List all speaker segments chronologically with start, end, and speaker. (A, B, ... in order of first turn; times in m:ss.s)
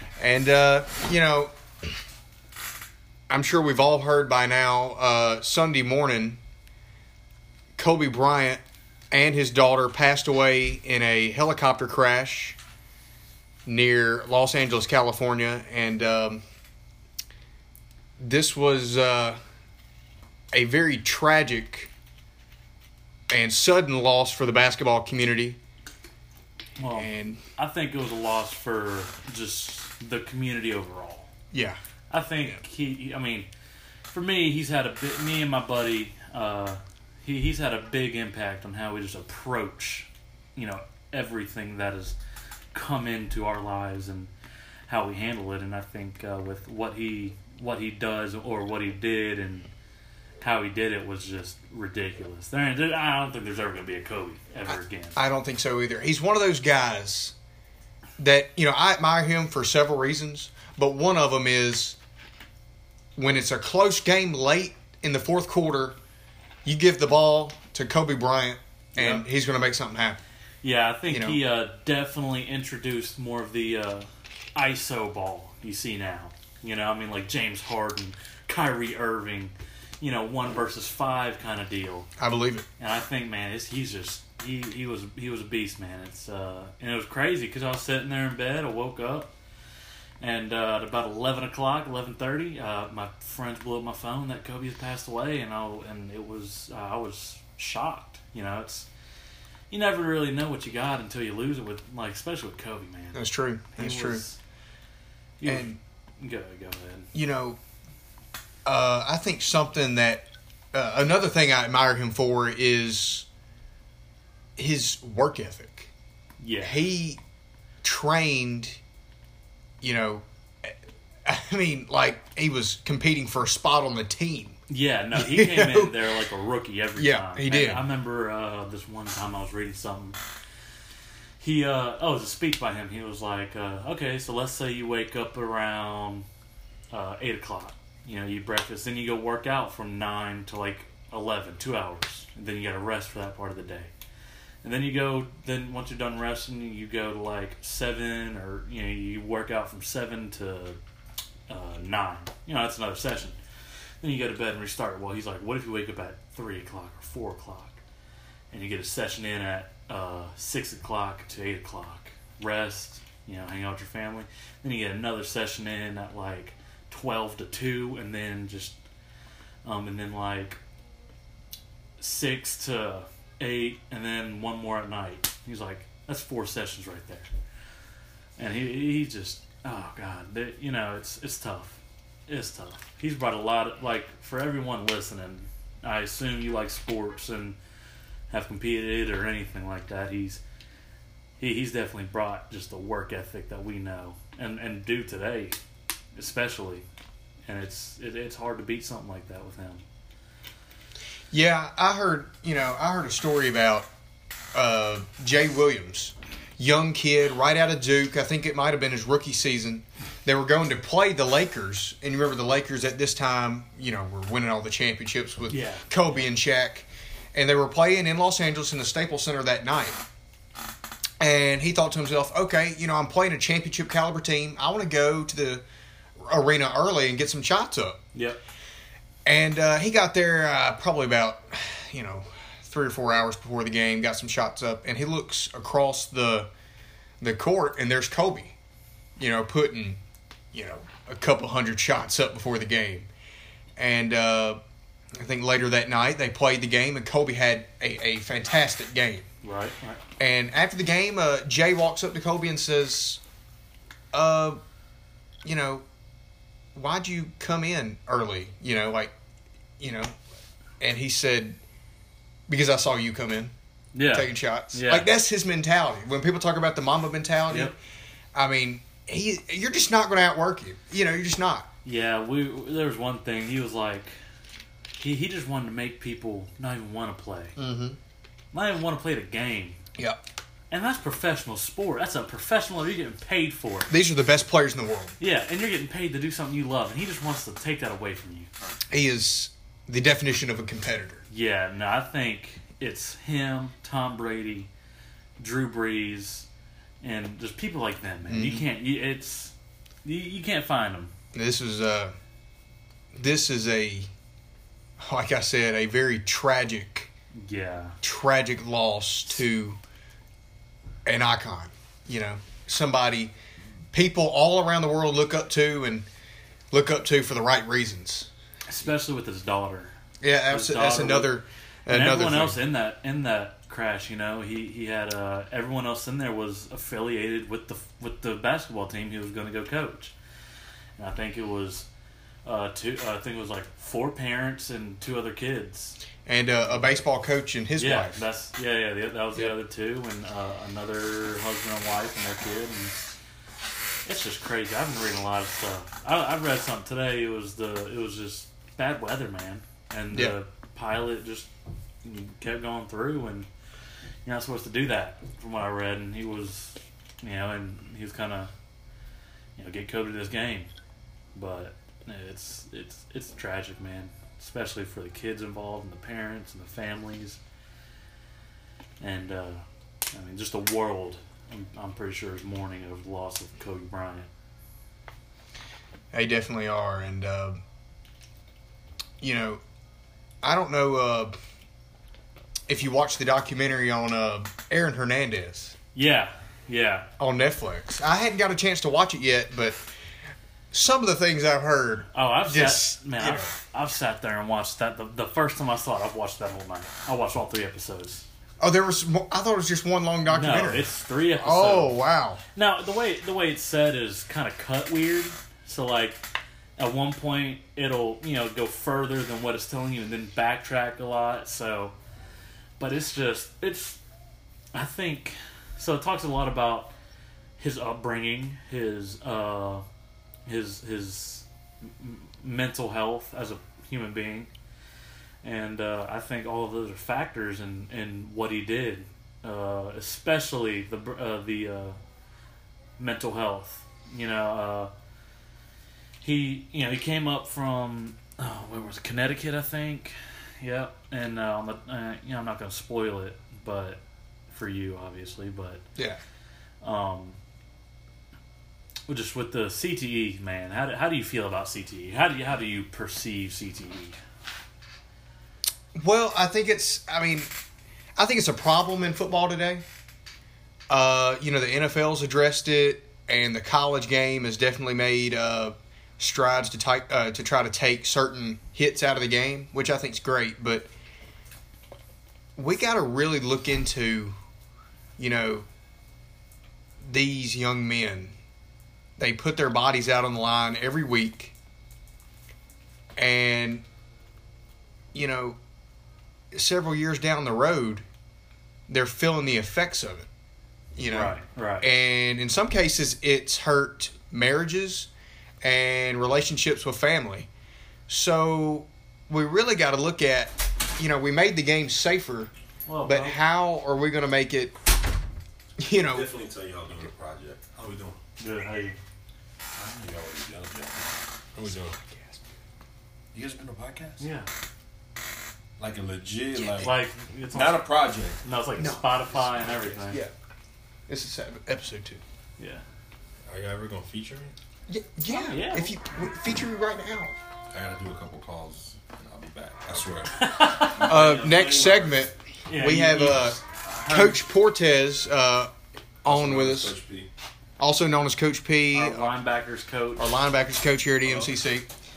0:00.2-0:01.5 A
0:03.3-0:06.4 A
0:07.8-0:12.6 A
0:13.6-0:16.4 A
0:18.2-0:19.4 A
0:20.5-0:21.9 A
0:23.3-0:25.6 A
0:26.8-0:31.3 B
0:26.9-0:27.4 A
0:31.5-0:31.8 A
0:32.1-0:33.5 B
0:34.1-0:42.2 B
0:42.7-0:44.3 B
0:44.9-0:49.7 B
0:50.4-0:55.2 B
0:54.7-0:57.3 A
0:58.2-1:02.0 A
1:03.2-1:06.0 A
1:06.6-1:10.2 A
1:08.9-1:09.2 B
1:10.6-1:22.1 B
1:11.1-1:11.4 A
1:22.2-1:22.6 A
1:22.8-1:29.3 B
1:30.2-1:38.9 B
1:39.7-1:43.2 B
1:43.1-1:44.2 A
1:43.7-1:44.4 B
1:45.4-1:47.1 B
1:45.4-1:45.8 A
1:47.1-1:47.6 A
1:48.6-1:53.3 A
1:54.6-1:55.9 A
1:56.4-1:56.8 B
1:56.6-1:57.2 A
1:57.8-1:58.8 A
1:59.8-2:04.6 A
2:04.7-2:10.2 B
2:05.1-2:05.9 A
2:07.0-2:07.8 A
2:11.4-2:16.2 B
2:16.9-2:23.9 B
2:24.6-2:30.8 B
2:31.5-2:33.4 B
2:34.0-2:37.8 B
2:38.5-2:48.8 B
2:49.6-2:50.6 B
2:52.0-2:57.3 B
2:58.4-3:07.6 B
3:08.3-3:10.4 B
3:11.4-3:15.6 B
3:16.2-3:16.8 B
3:17.5-3:19.8 B
3:21.3-3:23.9 A
3:24.5-3:40.0 A
3:35.5-3:36.3 B
3:41.2-3:45.6 A
3:46.2-3:48.0 A
3:48.1-3:48.4 B
3:49.2-3:56.5 A
3:57.2-3:58.5 A
3:59.2-4:00.0 A
4:00.5-4:03.1 A
4:03.8-4:04.6 A
4:05.1-4:09.2 A
4:09.4-4:10.0 B
4:10.2-4:13.2 A
4:14.1-4:14.6 A
4:15.4-4:15.8 A
4:16.7-4:19.1 A
4:19.8-4:20.1 A
4:20.8-4:21.6 A
4:22.5-4:23.5 A
4:23.9-4:25.1 B
4:24.1-4:27.7 A
4:28.3-4:31.7 A
4:31.8-4:34.1 B
4:35.0-4:37.6 B
4:37.6-4:38.0 A
4:38.5-4:39.8 B
4:40.0-4:40.2 A
4:40.7-4:43.9 B
4:43.9-4:45.2 A
4:45.2-4:48.5 B
4:48.9-4:51.2 A
4:51.3-4:54.7 B
4:55.4-4:56.5 B
4:57.0-4:59.5 B
4:58.3-4:58.6 A
5:00.0-5:01.1 B
5:01.3-5:02.1 A
5:03.1-5:04.1 A
5:05.0-5:07.1 A
5:07.4-5:08.0 B
5:08.0-5:09.8 A
5:11.0-5:13.3 A
5:13.9-5:16.1 A
5:16.7-5:18.3 A
5:18.7-5:19.9 B
5:20.2-5:22.6 A
5:20.5-5:21.3 B
5:21.9-5:30.1 B
5:31.0-5:31.9 B
5:32.4-5:36.0 B
5:36.2-5:38.2 A
5:36.6-5:37.0 B
5:37.8-5:43.1 B
5:44.0-5:51.5 B
5:52.0-5:53.5 B
5:54.2-5:58.5 B
5:59.6-6:00.7 B
6:01.3-6:07.4 B
6:09.0-6:09.6 B
6:10.1-6:14.3 B
6:16.1-6:17.6 A
6:19.2-6:19.6 A
6:20.4-6:21.3 A
6:22.7-6:25.7 A
6:25.9-6:27.1 B
6:27.2-6:29.8 A
6:30.7-6:33.5 A
6:32.1-6:38.2 B
6:38.6-6:42.4 A
6:40.2-6:41.9 B
6:42.5-6:46.2 B
6:46.8-6:51.9 B
6:52.8-6:54.0 B
6:54.7-6:56.9 B
6:57.6-6:59.8 B
7:00.4-7:04.5 B
7:05.4-7:12.0 B
7:13.0-7:14.9 B
7:16.2-7:25.8 B
7:26.8-7:27.4 B
7:29.1-7:34.2 B
7:35.9-7:37.5 A
7:38.2-7:39.8 A
7:40.9-7:50.9 A
7:52.6-7:54.3 A
7:55.2-7:55.6 A
7:57.0-7:58.3 A
7:59.2-8:01.5 A
8:03.2-8:03.8 A
8:05.1-8:05.6 A
8:06.5-8:08.0 A
8:08.9-8:10.3 A
8:11.0-8:15.1 A
8:11.0-8:11.9 B
8:15.6-8:17.5 A
8:18.1-8:22.5 A
8:22.9-8:23.4 B
8:23.0-8:24.7 A
8:25.8-8:26.3 A
8:26.1-8:28.2 C
8:28.4-8:29.0 B
8:29.8-8:30.0 B
8:30.0-8:32.0 C
8:32.0-8:32.4 A
8:33.3-8:34.2 C
8:34.2-8:34.5 B
8:35.8-8:37.0 C
8:36.5-8:36.9 A
8:36.8-8:37.8 B
8:37.5-8:38.4 C
8:38.4-8:40.2 B
8:38.8-8:39.4 A
8:40.0-8:40.3 A
8:41.1-8:42.2 A
8:43.5-8:44.5 C
8:44.9-8:47.3 A
8:45.3-8:45.9 B
8:47.7-8:52.3 C
8:50.3-8:51.2 B
8:51.0-8:55.7 A
8:52.7-8:54.4 B
8:56.2-8:57.0 A
8:56.3-8:57.3 C
8:57.8-8:59.3 A
8:58.9-9:00.3 B
9:00.2-9:01.9 A